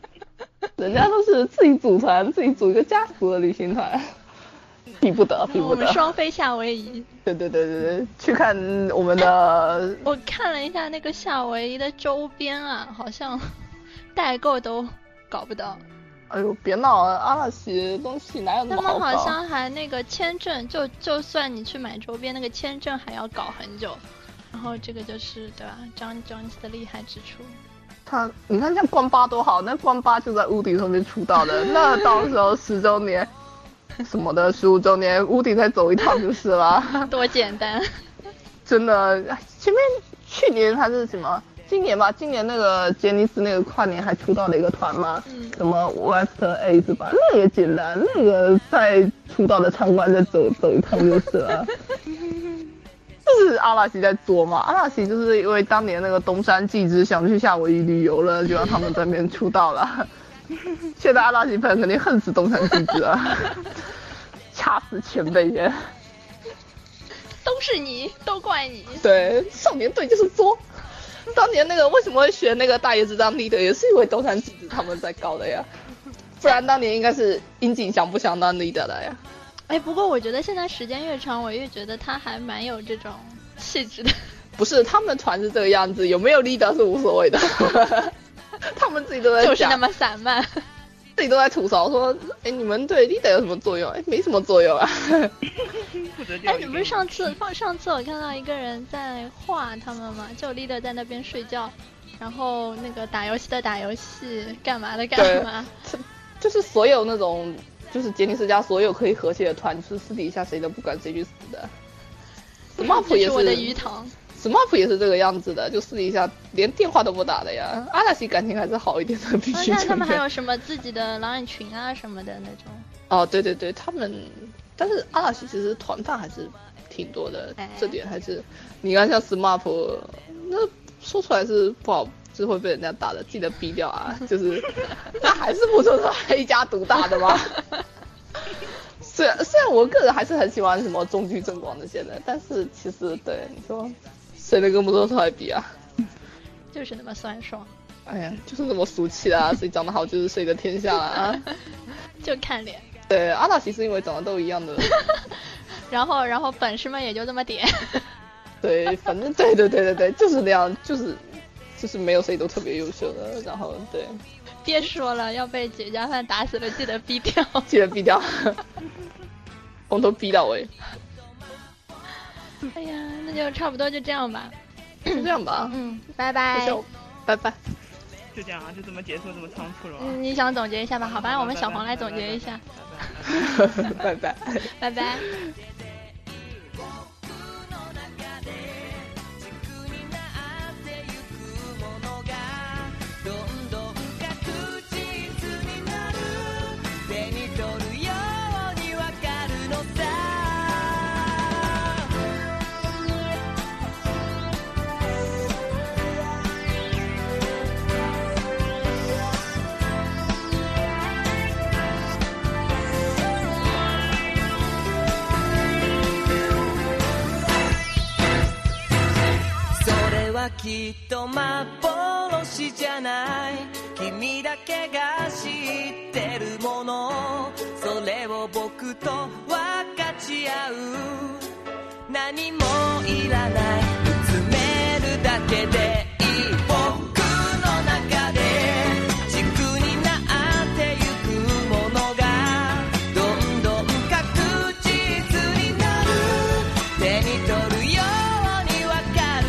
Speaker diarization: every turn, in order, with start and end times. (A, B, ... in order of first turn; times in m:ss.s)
0:00.8-0:04.1 A
0:05.0-0:06.2 A
0:05.5-0:07.1 B
0:07.3-0:10.0 A
0:10.0-0:13.5 B
0:14.1-0:15.8 B
0:16.3-0:19.4 A
0:18.7-0:27.6 B
0:28.1-0:33.3 A
0:34.0-0:37.1 A
0:37.0-0:38.0 B
0:38.7-0:51.7 A
0:45.3-0:45.6 B
0:53.3-1:00.1 A
1:01.0-1:03.9 A
1:04.5-1:05.8 A
1:07.4-1:09.1 B
1:09.0-1:10.6 A
1:11.3-1:15.7 A
1:16.4-1:19.2 A
1:19.7-1:24.2 B
1:24.6-1:29.8 A
1:29.4-1:30.6 B
1:31.2-1:35.3 A
1:35.5-1:37.4 C
1:36.5-1:45.7 B
1:45.2-1:51.7 A
1:52.8-1:53.8 A
1:52.8-1:54.1 B
1:54.4-2:00.2 A
1:59.5-2:02.9 B
2:03.1-2:17.6 A
2:07.6-2:08.0 B
2:19.0-2:25.7 A
2:26.7-2:27.7 B
2:28.1-2:31.5 A
2:32.2-2:32.9 B
2:33.1-2:34.9 A
2:34.8-2:38.1 B
2:38.6-2:41.2 A
2:41.8-2:44.2 A
2:44.6-2:47.7 B
2:47.7-2:48.6 A
2:49.9-2:50.7 A
2:52.7-2:54.5 B
2:55.1-2:55.8 A
2:55.1-2:56.8 B
2:56.5-2:57.6 A
2:58.3-3:00.2 C
3:00.0-3:02.6 B
3:01.0-3:03.9 C
3:03.4-3:04.7 A
3:04.6-3:05.3 B
3:39.8-3:44.0 D
3:45.7-3:46.1 D
3:47.1-3:51.3 D
3:52.5-3:58.9 D
4:02.8-4:03.2 D
4:04.6-4:06.8 D